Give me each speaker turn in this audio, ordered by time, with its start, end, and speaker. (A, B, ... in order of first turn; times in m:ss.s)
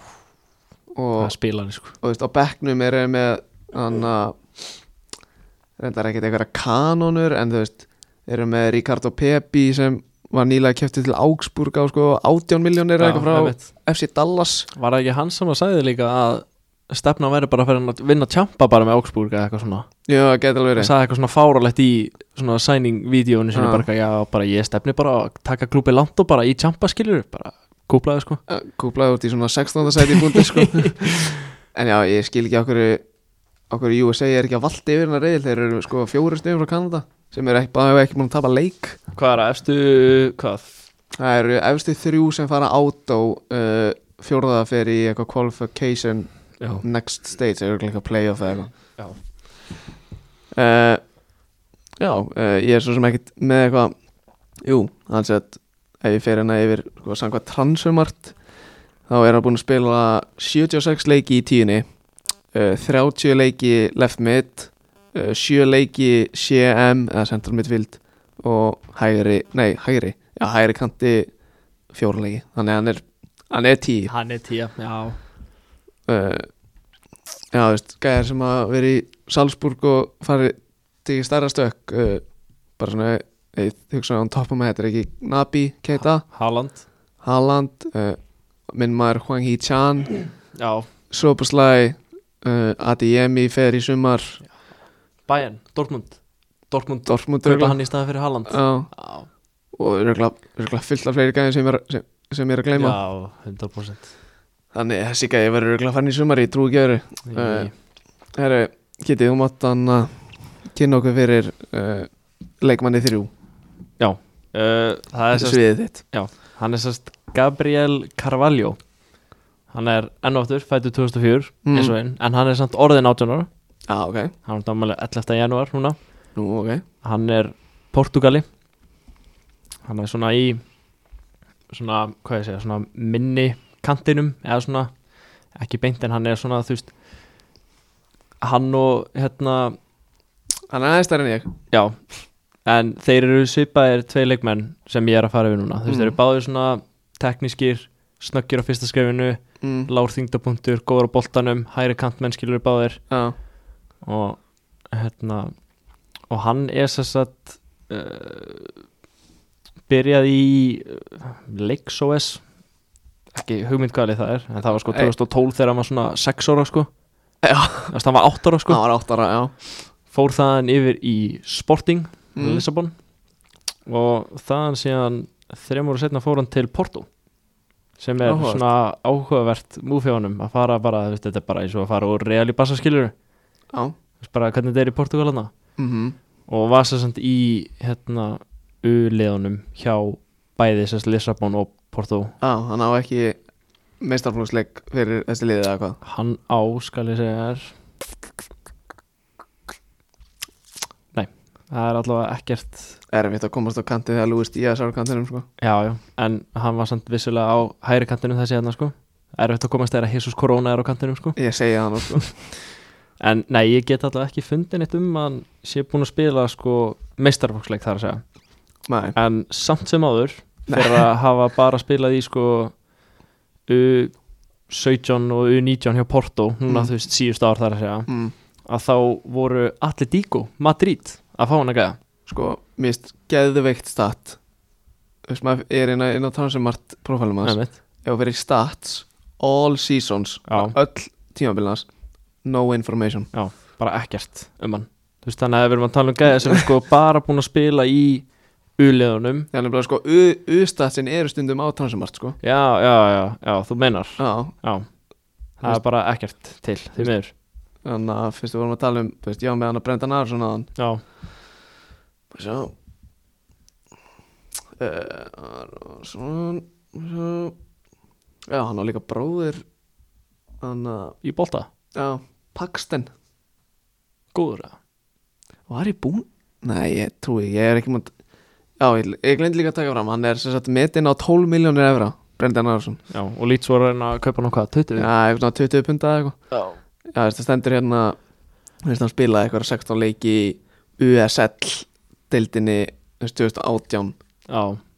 0:01.0-0:01.3 A
0:01.2-0:02.0 B
0:02.0-0:04.4 A
0:05.8-0:14.7 A
0:13.0-0:13.7 B
0:14.7-0:19.9 B
0:20.1-0:20.9 A
0:20.8-0:28.4 B
0:23.6-0:23.9 A
0:28.5-0:33.0 A
0:30.0-0:31.5 B
0:33.7-0:39.0 A
0:39.2-0:40.8 B
0:41.2-0:46.3 A
0:46.6-0:46.8 B
0:46.8-0:48.7 A
0:50.5-0:51.0 A
0:52.0-0:53.9 A
0:54.6-0:58.4 A
0:59.1-1:01.8 A
1:02.5-1:11.3 A
1:11.9-1:14.1 A
1:14.1-1:15.2 B
1:16.1-1:16.5 A
1:17.5-1:22.2 A
1:22.8-1:26.2 A
1:26.0-1:26.8 B
1:27.2-1:28.2 A
1:28.7-1:30.2 A
1:30.6-1:30.9 B
1:31.1-1:34.4 A
1:35.3-1:36.2 B
1:36.7-1:39.3 B
1:37.1-1:37.8 A
1:38.5-1:38.9 A
1:39.7-1:43.0 A
1:42.8-1:44.1 B
1:44.7-1:47.7 A
1:47.3-1:47.7 B
1:48.4-1:52.1 A
1:52.6-1:53.3 A
1:54.0-1:58.8 B
1:55.4-1:56.0 A
1:59.7-2:03.5 B
2:01.6-2:02.0 A
2:03.9-2:04.3 A
2:04.5-2:06.0 B
2:06.4-2:06.8 A
2:07.0-2:08.5 B
2:09.8-2:10.6 B
2:11.7-2:14.9 B
2:15.6-2:16.9 B
2:18.4-2:19.8 B
2:20.7-2:21.5 A
2:21.7-2:22.0 B
2:22.6-2:33.0 B
2:25.9-2:26.2 A
2:29.6-2:29.9 A
2:33.1-2:33.4 A
2:34.0-2:34.4 B
2:34.9-2:35.5 B
2:36.3-2:38.8 B
2:39.9-2:42.4 B
2:43.4-2:46.9 B
2:44.9-2:45.1 A
2:47.4-2:47.9 A
2:47.9-2:48.8 B
2:48.7-2:49.5 A
2:50.1-2:52.9 B
2:52.4-2:52.7 A
2:53.9-2:57.1 B
2:58.0-3:03.1 B
2:58.2-2:58.7 A
3:04.2-3:05.5 B
3:05.8-3:06.2 A
3:06.5-3:12.4 B
3:12.4-3:13.4 A
3:14.0-3:16.0 A
3:16.0-3:17.7 B
3:21.1-3:23.0 B
3:23.1-3:25.5 A
3:25.6-3:31.4 B
3:31.4-3:32.3 A
3:33.2-3:38.2 B
3:38.9-3:39.2 A
3:39.2-3:42.8 B
3:40.7-3:41.0 A
3:43.7-3:44.1 B
3:44.7-3:48.1 B
3:48.1-3:48.3 A
3:48.6-3:52.0 B
3:52.3-3:54.4 A
3:55.3-4:01.9 A
3:57.4-3:57.7 B
4:00.5-4:00.8 B
4:02.4-4:03.3 A
4:03.3-4:08.3 B
4:08.8-4:09.5 B
4:09.5-4:12.4 A
4:12.4-4:14.9 B
4:14.2-4:14.5 A
4:15.6-4:17.3 B
4:17.8-4:20.7 A
4:22.3-4:22.7 A
4:24.8-4:27.6 A
4:28.5-4:29.6 A
4:30.6-4:31.2 A
4:31.2-4:31.7 B
4:32.0-4:33.1 A
4:34.3-4:34.8 B
4:35.7-4:38.1 A
4:38.8-4:43.0 A
4:43.1-4:45.1 B
4:45.0-4:46.4 A
4:46.5-4:46.8 B
4:47.1-4:48.2 A
4:48.8-4:54.1 A
4:54.5-4:54.8 B